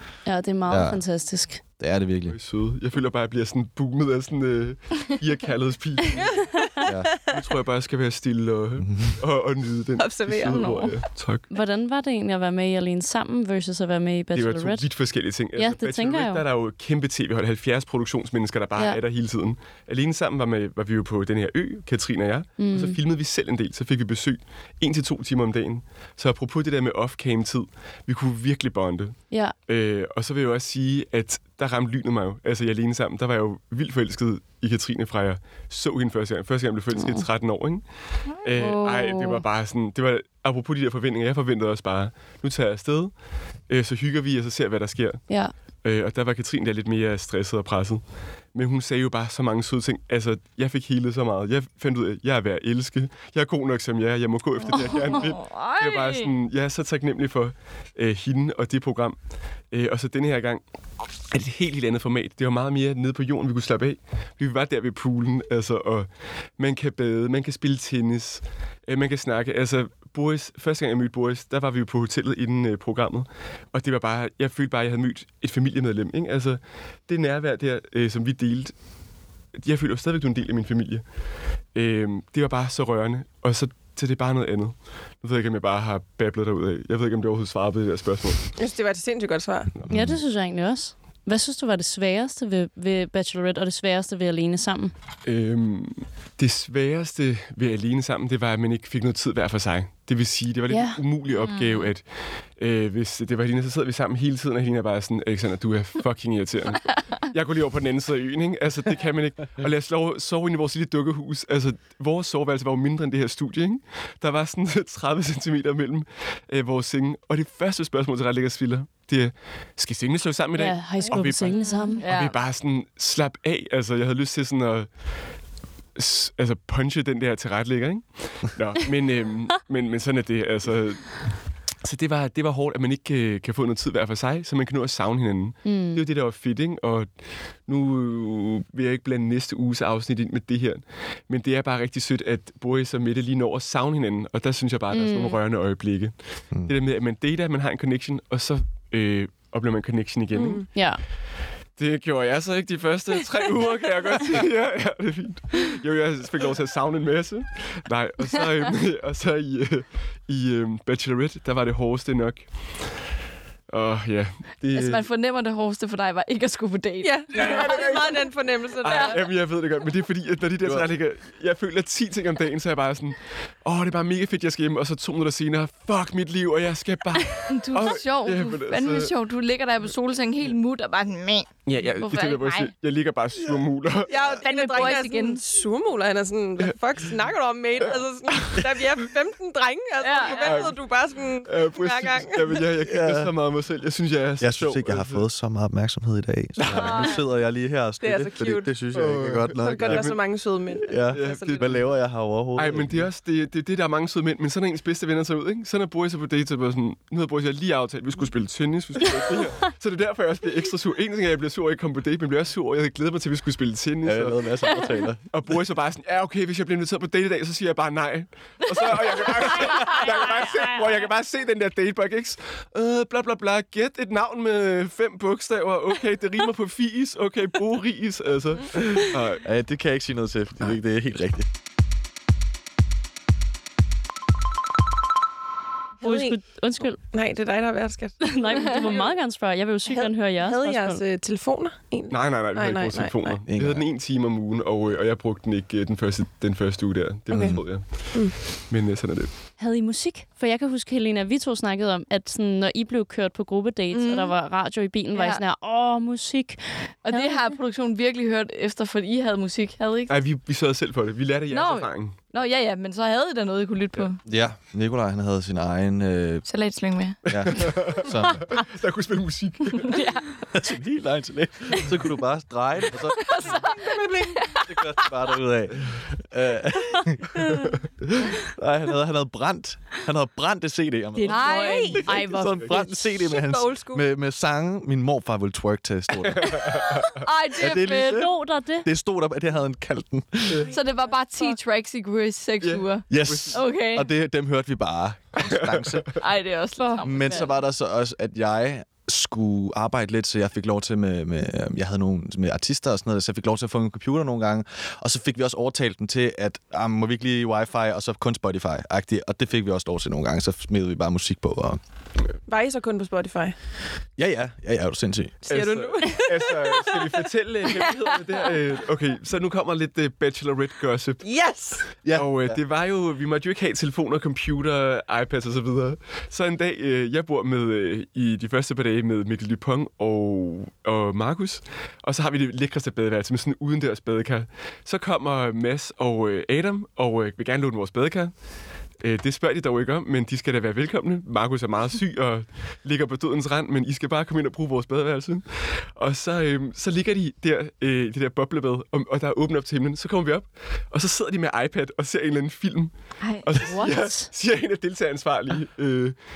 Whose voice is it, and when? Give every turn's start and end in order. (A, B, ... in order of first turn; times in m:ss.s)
0:00.2-0:01.6 A
0:00.7-0:01.0 B
0:01.8-0:02.4 B
0:02.3-0:06.4 C
0:06.1-0:07.4 D
0:06.8-0:07.1 B
0:07.3-0:11.4 C
0:08.8-0:09.2 B
0:10.0-0:10.9 D
0:10.5-0:10.9 E
0:11.5-0:14.8 A
0:14.3-0:37.8 C
0:15.6-0:16.4 A
0:22.6-0:23.0 A
0:37.0-0:37.2 A
0:38.4-0:43.1 C
0:38.6-0:39.4 A
0:43.7-0:48.0 C
0:48.5-0:59.2 C
0:54.7-0:56.3 E
0:59.7-1:00.6 C
1:01.3-1:18.7 C
1:19.5-1:21.0 C
1:21.7-1:28.5 C
1:28.6-1:29.7 D
1:29.9-1:30.2 B
1:29.9-1:34.9 A
1:35.2-2:04.9 C
1:40.7-1:41.0 A
1:41.4-1:41.8 E
2:00.5-2:02.1 A
2:01.9-2:02.4 E
2:06.0-2:17.1 C
2:15.6-2:16.0 A
2:17.6-2:30.8 C
2:24.9-2:25.4 A
2:30.3-2:30.7 D
2:30.7-2:31.0 A
2:31.8-2:42.9 C
2:43.7-2:45.0 C
2:44.7-2:48.0 E
2:47.0-2:49.2 D
2:47.3-2:48.3 C
2:48.8-2:59.1 C
2:50.6-2:50.9 B
2:57.5-3:02.7 E
3:01.6-3:04.2 C
3:04.1-3:12.6 D
3:04.4-3:05.4 E
3:07.8-3:08.6 C
3:10.0-3:10.7 E
3:10.2-3:10.8 C
3:11.4-3:15.2 C
3:12.8-3:13.3 B
3:14.4-3:20.1 B
3:16.6-3:16.9 C
3:16.7-3:17.1 D
3:16.8-3:17.2 E
3:18.0-3:18.8 D
3:18.9-3:20.2 C
3:19.6-3:21.8 D
3:20.9-3:23.1 B
3:21.1-3:21.8 C
3:22.6-3:34.7 C
3:34.0-3:35.2 B
3:35.3-3:49.4 C
3:39.7-3:40.0 E
3:49.4-3:51.5 B
3:56.0-3:56.4 D
3:56.0-3:57.0 A
3:57.1-3:59.1 D
3:58.2-4:01.0 A
3:59.9-4:03.4 D
4:02.1-4:09.3 C
4:03.5-4:03.8 B
4:07.3-4:07.6 B
4:07.3-4:08.3 D
4:09.6-4:17.5 A
4:13.9-4:14.3 E
4:15.1-4:15.4 E
4:17.0-4:20.2 E
4:20.1-4:22.2 C
4:21.5-4:24.2 E
4:24.2-4:26.4 B
4:26.4-4:27.7 E
4:27.3-4:28.4 B
4:27.4-4:30.0 C
4:29.8-4:30.5 E
4:30.5-4:33.6 B
4:33.1-4:34.9 E
4:33.4-4:34.4 D
4:34.5-4:37.5 B
4:38.1-4:46.8 B
4:41.1-4:43.2 A
4:41.2-4:42.0 E
4:41.7-4:42.0 D
4:43.1-4:44.0 D
4:46.2-4:47.2 C
4:47.0-4:48.3 E
4:47.6-4:48.3 B
4:47.9-4:48.9 A
4:48.8-4:50.7 B
4:50.7-4:51.6 D
4:50.7-4:54.1 E
4:52.6-4:53.6 C
4:53.1-4:56.2 B
4:55.5-4:56.0 C
4:56.1-4:57.5 E
4:57.0-5:11.8 B
5:12.5-5:13.6 D
5:14.2-5:15.4 B
5:15.5-5:17.2 D
5:15.5-5:21.2 C
5:21.2-5:21.9 D
5:22.0-5:22.6 B
5:22.1-5:38.3 C
5:39.0-5:56.1 C
5:53.2-5:53.7 E
5:53.6-5:54.3 A